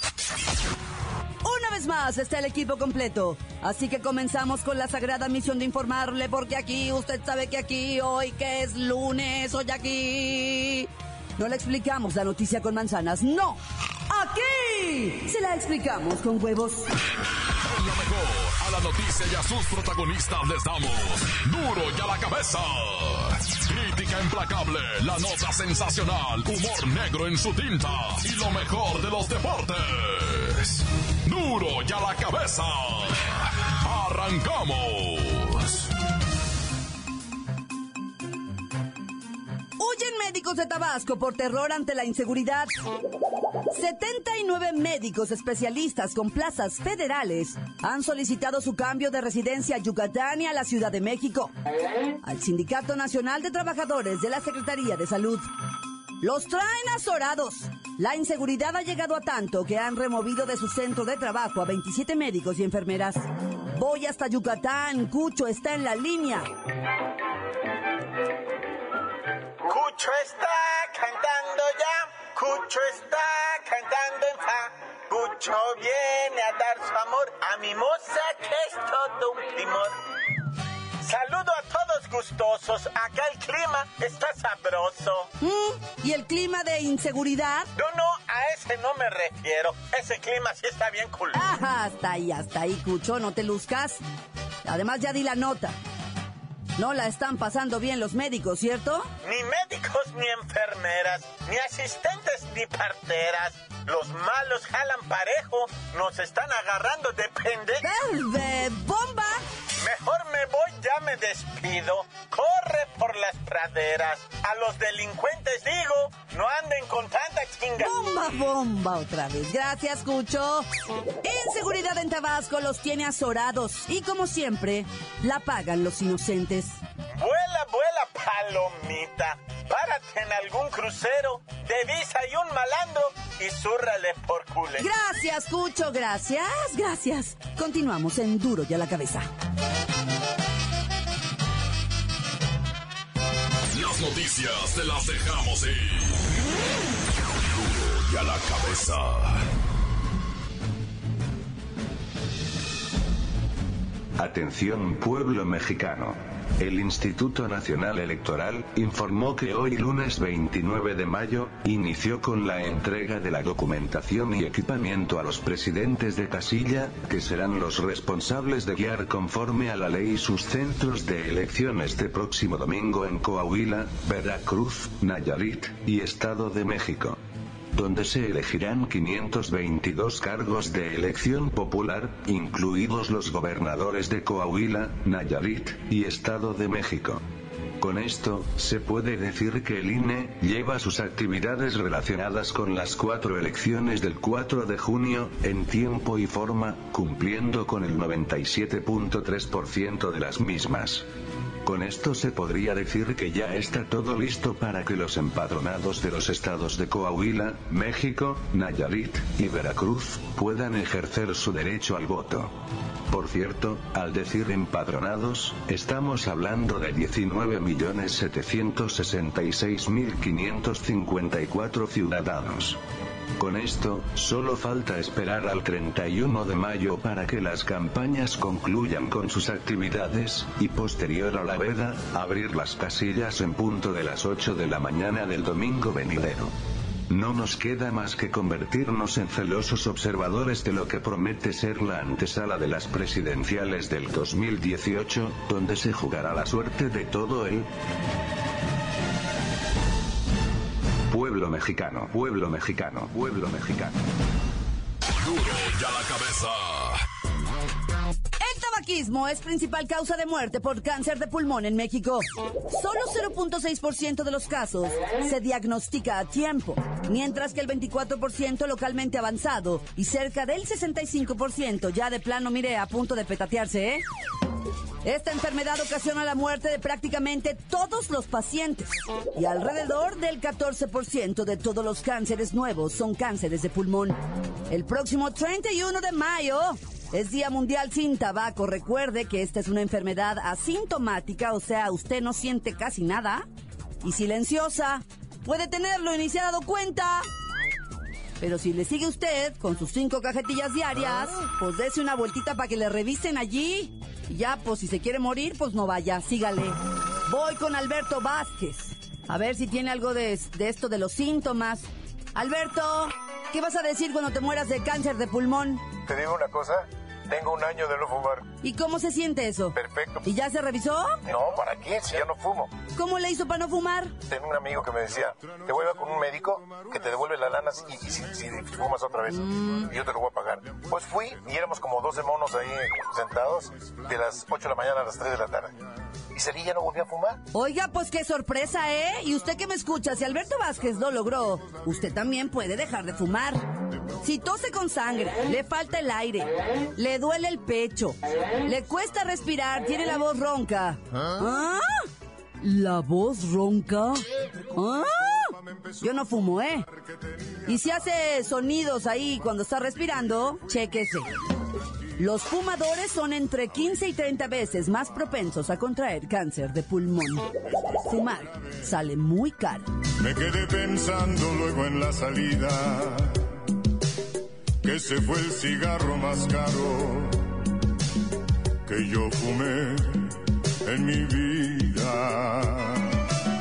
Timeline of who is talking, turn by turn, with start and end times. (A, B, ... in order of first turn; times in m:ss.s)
0:01.4-0:16.9 A
0:17.7-0:35.9 B
0:39.8-0:42.7 A
0:43.7-0:51.5 A
0:52.2-0:55.5 A
0:56.2-1:06.5 A
1:09.6-1:19.9 C
1:21.0-1:25.3 C
1:25.4-1:27.7 A
1:27.8-1:31.4 C
1:31.3-1:34.0 A
1:34.6-1:35.8 A
1:36.8-1:39.1 A
1:39.2-1:47.8 C
1:47.8-1:49.4 A
1:49.8-1:57.9 C
1:57.8-2:00.6 A
2:01.2-2:06.8 A
2:07.2-2:14.9 C
2:14.8-2:19.3 A
2:23.7-2:26.2 B
2:27.5-2:29.4 B
2:34.2-2:57.2 D
2:57.7-3:07.2 D
3:07.8-3:21.0 D
3:21.6-3:32.5 D
3:33.1-3:42.8 D
3:43.4-3:56.5 D
3:57.1-4:07.7 D
4:11.1-4:14.0 D
4:15.2-4:17.0 B
4:18.4-4:34.0 A
4:35.0-4:44.2 A
4:44.7-4:53.4 A
4:54.0-4:57.2 A
4:58.4-5:15.9 A
5:16.0-5:18.4 E
5:18.6-5:21.2 A
5:19.7-5:20.2 E
5:21.2-5:22.7 E
5:23.0-5:24.1 A
5:24.3-5:35.7 E
5:29.3-5:29.8 A
5:36.3-5:37.4 E
5:37.5-5:43.6 A
5:44.2-5:52.1 A
5:52.6-5:56.9 A
5:57.6-6:01.3 A
6:02.2-6:07.5 A
6:08.0-6:09.8 A
6:10.2-6:13.5 F
6:14.8-6:17.5 F
6:18.8-6:20.3 F
6:20.8-6:23.1 F